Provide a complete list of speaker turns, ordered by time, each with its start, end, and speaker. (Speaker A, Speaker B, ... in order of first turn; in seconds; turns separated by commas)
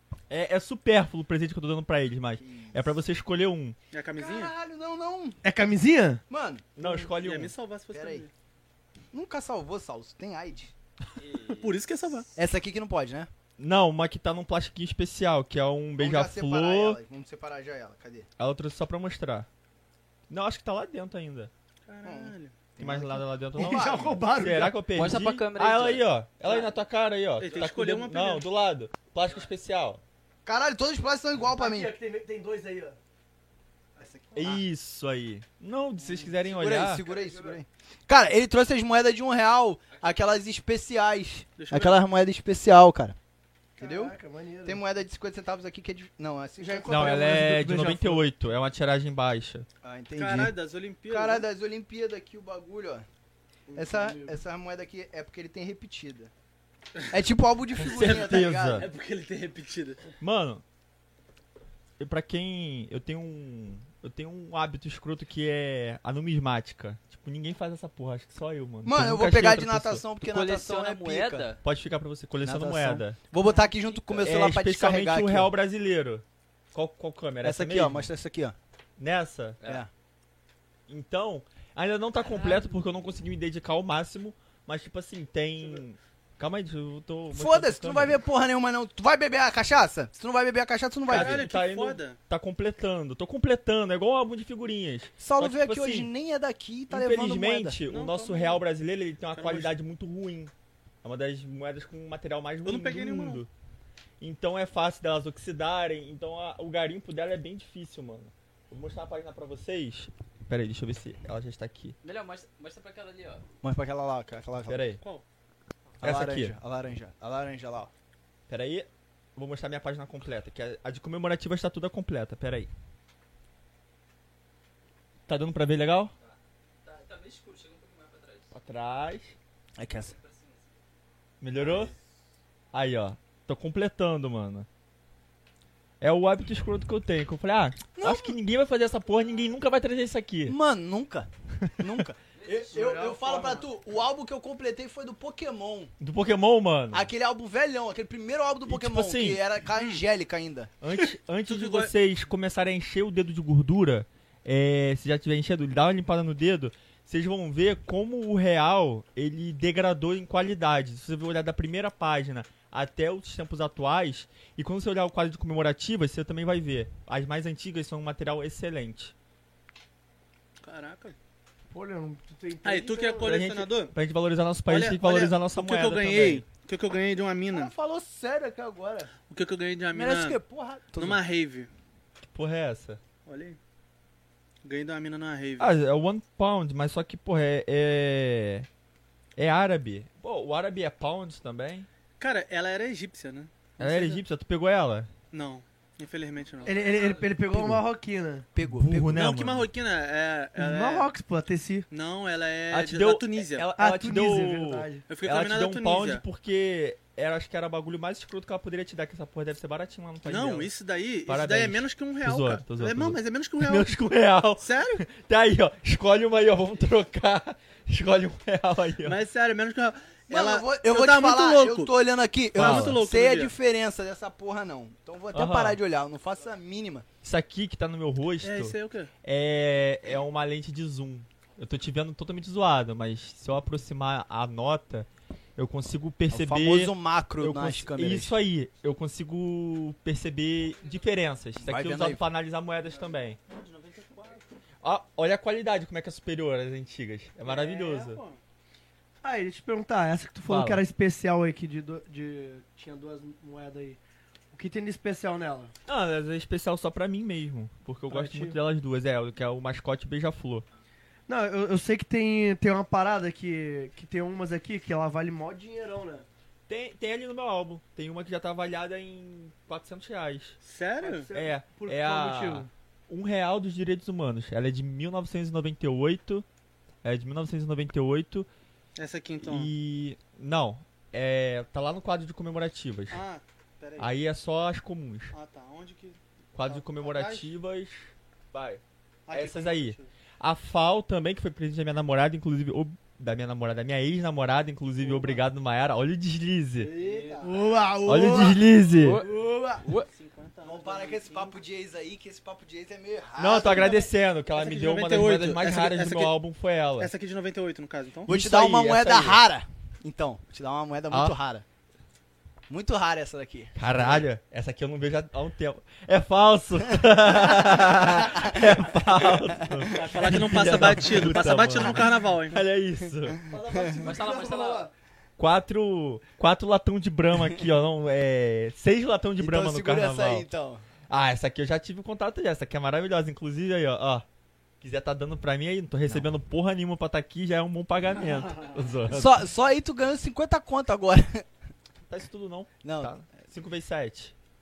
Speaker A: 0.3-3.8, Speaker B: 2.4-2.8, Speaker C: 3.9-4.5, Speaker B: 4.2-5.4, Speaker D: 5.4-6.2, Speaker B: 6.3-6.7, Speaker A: 6.8-7.5, Speaker C: 6.9-8.3, Speaker B: 7.9-8.2, Speaker B: 9.1-10.7, Speaker E: 11.2-11.7, Speaker C: 11.6-12.3, Speaker B: 12.3-13.3, Speaker A: 13.6-17.0, Speaker B: 16.0-18.3, Speaker A: 18.4-19.5, Speaker A: 20.3-21.5, Speaker C: 21.9-22.7, Speaker B: 22.0-24.2, Speaker A: 22.8-30.0, Speaker D: 23.5-24.8, Speaker E: 24.9-26.1, Speaker C: 27.4-28.4, Speaker B: 30.4-31.9, Speaker D: 31.5-33.0, Speaker B: 34.0-34.6, Speaker A: 34.3-37.0, Speaker B: 36.0-43.1, Speaker D: 37.0-37.6, Speaker C: 41.6-42.0, Speaker D: 43.8-44.8, Speaker B: 43.8-47.4, Speaker D: 46.6-48.2, Speaker A: 46.9-49.7, Speaker B: 49.8-50.5, Speaker C: 50.1-51.5, Speaker B: 51.1-53.0, Speaker D: 53.7-54.4, Speaker B: 53.7-56.3, Speaker B: 57.1-58.9, Speaker A: 57.8-58.9, Speaker C: 58.0-60.0, Speaker A: 60.2-60.6, Speaker A: 62.0-70.0, Speaker B: 68.8-71.5, Speaker E: 70.2-71.6, Speaker A: 71.6-73.2, Speaker B: 72.4-75.5, Speaker E: 73.4-74.2, Speaker A: 74.2-78.1, Speaker B: 77.4-78.5, Speaker A: 79.0-79.6, Speaker E: 79.6-79.8, Speaker B: 79.6-79.9, Speaker A: 80.9-88.2, Speaker B: 87.3-91.5, Speaker C: 91.1-92.2, Speaker A: 91.1-96.1, Speaker B: 95.2-97.8, Speaker A: 96.9-100.5, Speaker C: 97.8-98.6, Speaker C: 99.3-99.7, Speaker A: 101.0-103.5, Speaker C: 102.6-103.4, Speaker A: 104.2-112.0, Speaker E: 112.0-113.4, Speaker B: 113.6-114.8, Speaker A: 114.7-115.0, Speaker B: 116.0-117.9, Speaker A: 116.0-116.5, Speaker A: 118.5-122.7, Speaker A: 125.3-126.1, Speaker E: 126.2-128.5, Speaker A: 128.5-129.3, Speaker B: 129.8-130.2, Speaker E: 129.9-130.7, Speaker A: 131.4-131.9, Speaker A: 132.7-134.7, Speaker A: 136.0-140.6, Speaker B: 138.0-138.3, Speaker B: 140.4-145.9, Speaker D: 142.7-143.6, Speaker A: 146.0-147.1, Speaker B: 146.9-150.7, Speaker A: 148.7-149.4, Speaker C: 149.8-150.0, Speaker A: 150.8-169.1, Speaker C: 151.4-151.9, Speaker C: 170.6-171.2, Speaker D: 171.7-173.3, Speaker C: 172.6-173.9, Speaker A: 173.2-176.4, Speaker C: 174.7-177.7, Speaker B: 177.5-179.1, Speaker C: 179.3-180.4, Speaker B: 179.9-181.2, Speaker C: 180.9-181.7, Speaker A: 182.3-183.0, Speaker C: 183.2-183.6, Speaker C: 184.6-185.7, Speaker A: 185.6-188.7, Speaker A: 189.4-191.9, Speaker C: 192.2-194.2, Speaker A: 193.8-195.1, Speaker C: 195.3-196.9, Speaker D: 196.6-198.5, Speaker A: 197.5-197.8, Speaker B: 198.5-199.3, Speaker A: 198.6-199.7, Speaker C: 199.1-201.1, Speaker D: 200.6-201.9, Speaker C: 201.9-203.7, Speaker A: 202.7-210.7, Speaker D: 203.8-205.0, Speaker C: 205.1-206.2, Speaker C: 210.2-214.0, Speaker A: 211.3-219.2, Speaker C: 214.6-215.0, Speaker C: 219.0-221.9, Speaker B: 220.3-227.1, Speaker C: 222.5-223.5, Speaker A: 222.6-223.0, Speaker A: 225.3-225.8, Speaker A: 227.2-243.4, Speaker C: 228.4-229.1, Speaker B: 236.3-238.3, Speaker B: 241.6-242.2, Speaker C: 243.5-244.4, Speaker A: 244.8-248.2, Speaker C: 247.4-248.4, Speaker D: 249.2-254.0, Speaker A: 250.5-250.8, Speaker D: 254.5-255.7, Speaker A: 255.9-260.6, Speaker D: 258.1-258.6, Speaker D: 261.3-266.2, Speaker A: 266.7-270.6, Speaker C: 270.6-271.3, Speaker D: 271.0-272.7, Speaker A: 271.3-276.4, Speaker A: 277.0-278.5, Speaker C: 278.9-279.7, Speaker A: 279.4-283.2, Speaker C: 283.1-284.1, Speaker A: 284.0-285.3, Speaker C: 285.3-287.5, Speaker A: 286.5-296.9, Speaker C: 289.3-290.1, Speaker C: 296.8-297.5, Speaker E: 297.0-297.4, Speaker D: 297.4-298.6, Speaker A: 298.0-299.2, Speaker E: 299.0-299.3, Speaker D: 299.2-299.9, Speaker C: 300.1-301.5, Speaker B: 300.6-304.1, Speaker A: 303.4-307.1, Speaker C: 304.5-306.4, Speaker C: 307.0-308.3, Speaker B: 308.3-311.6, Speaker A: 308.3-309.4, Speaker B: 312.7-314.2, Speaker A: 313.8-323.4, Speaker B: 317.3-319.8, Speaker C: 319.9-322.6, Speaker B: 323.3-324.1, Speaker D: 323.5-324.9, Speaker E: 324.0-324.9, Speaker A: 325.4-330.4, Speaker B: 329.4-330.8, Speaker A: 331.1-334.2, Speaker A: 334.8-339.4, Speaker B: 339.1-341.4, Speaker A: 342.1-344.3, Speaker B: 342.8-343.1